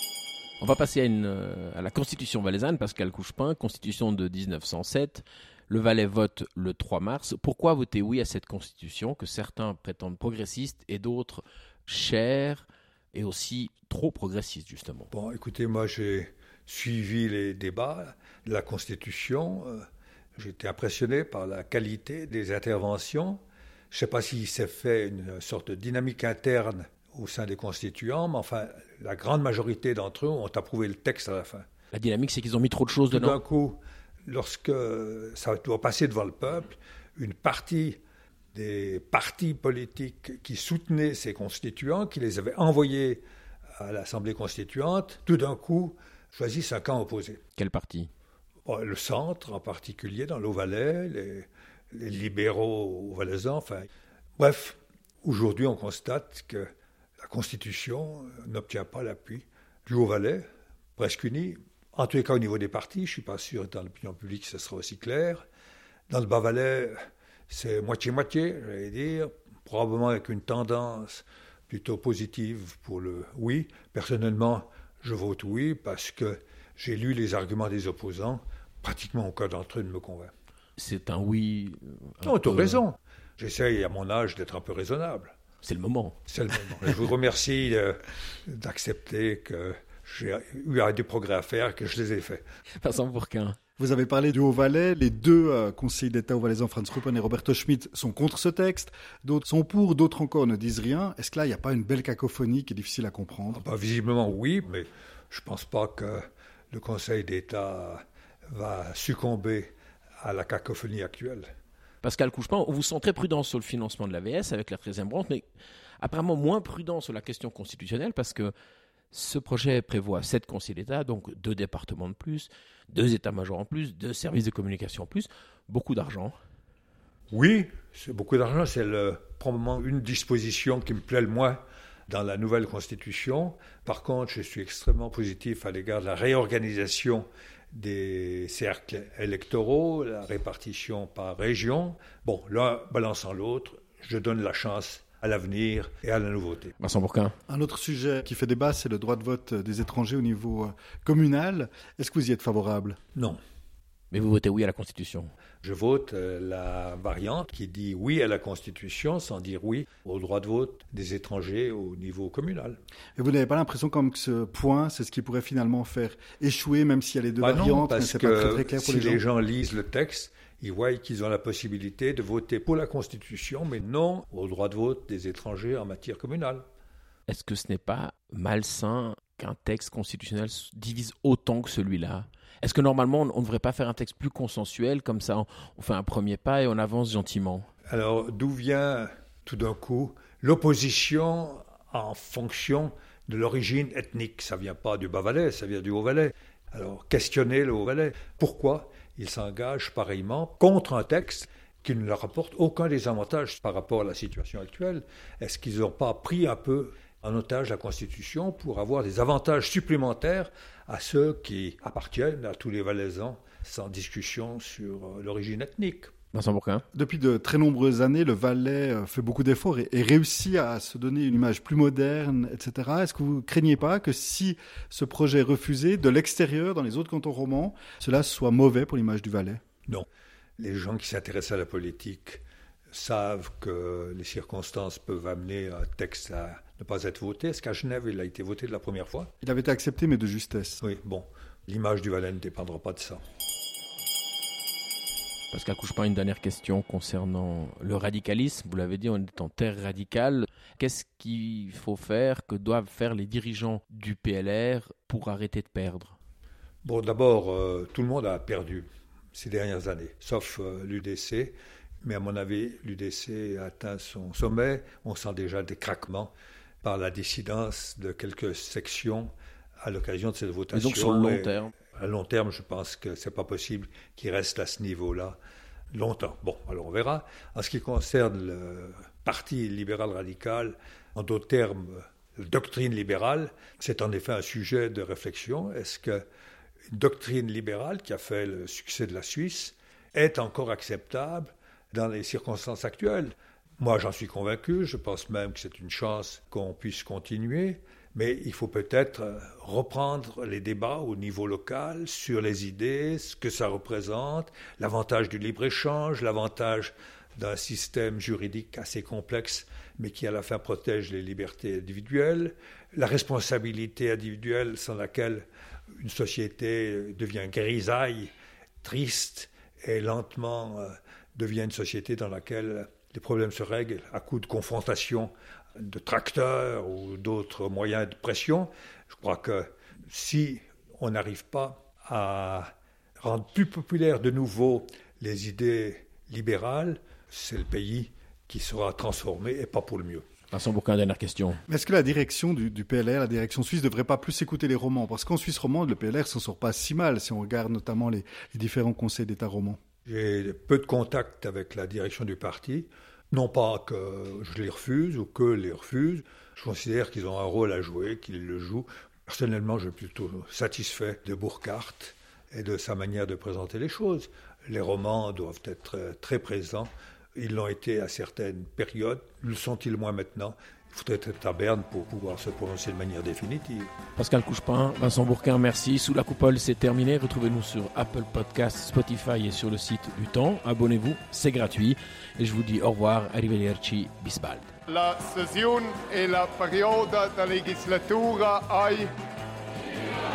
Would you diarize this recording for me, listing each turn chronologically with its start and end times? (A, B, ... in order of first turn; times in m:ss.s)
0:00.6-0:15.1 A
0:15.1-0:31.7 B
0:31.9-0:33.4 A
0:33.1-0:38.0 B
0:38.5-0:43.2 B
0:43.8-0:47.4 B
0:47.6-0:48.1 A
0:48.6-0:56.7 B
0:57.2-1:00.4 B
1:01.0-1:05.4 B
1:06.1-1:07.0 B
1:07.5-1:20.3 B
1:20.8-1:22.8 A
1:22.2-1:25.4 B
1:25.6-1:26.2 A
1:26.3-1:32.4 B
1:32.8-1:33.6 A
1:33.8-1:43.6 C
1:43.5-1:51.5 B
1:52.0-1:55.4 A
1:56.0-1:58.5 A
1:59.1-2:06.4 A
2:07.3-2:26.8 B
2:26.8-2:27.4 A
2:27.5-2:33.0 C
2:33.2-2:33.4 B
2:34.1-2:35.3 A
2:35.6-2:42.8 B
2:43.2-2:49.2 C
2:47.4-2:56.6 B
2:57.3-3:07.7 A
3:07.9-3:36.1 B
3:36.3-3:36.8 A
3:36.9-3:49.6 C
3:50.6-3:52.4 B
3:52.9-3:59.3 B
3:59.4-4:00.8 C
4:00.8-4:03.2 B
4:05.5-4:16.2 A
4:16.8-4:26.3 B
4:26.8-4:35.4 B
4:30.7-4:31.7 A
4:35.9-4:46.2 B
4:46.9-5:15.5 B
5:16.0-5:40.2 B
5:40.5-5:41.6 A
5:41.7-5:49.8 C
5:50.1-6:13.9 B
6:14.2-6:24.7 A
6:24.9-6:29.1 D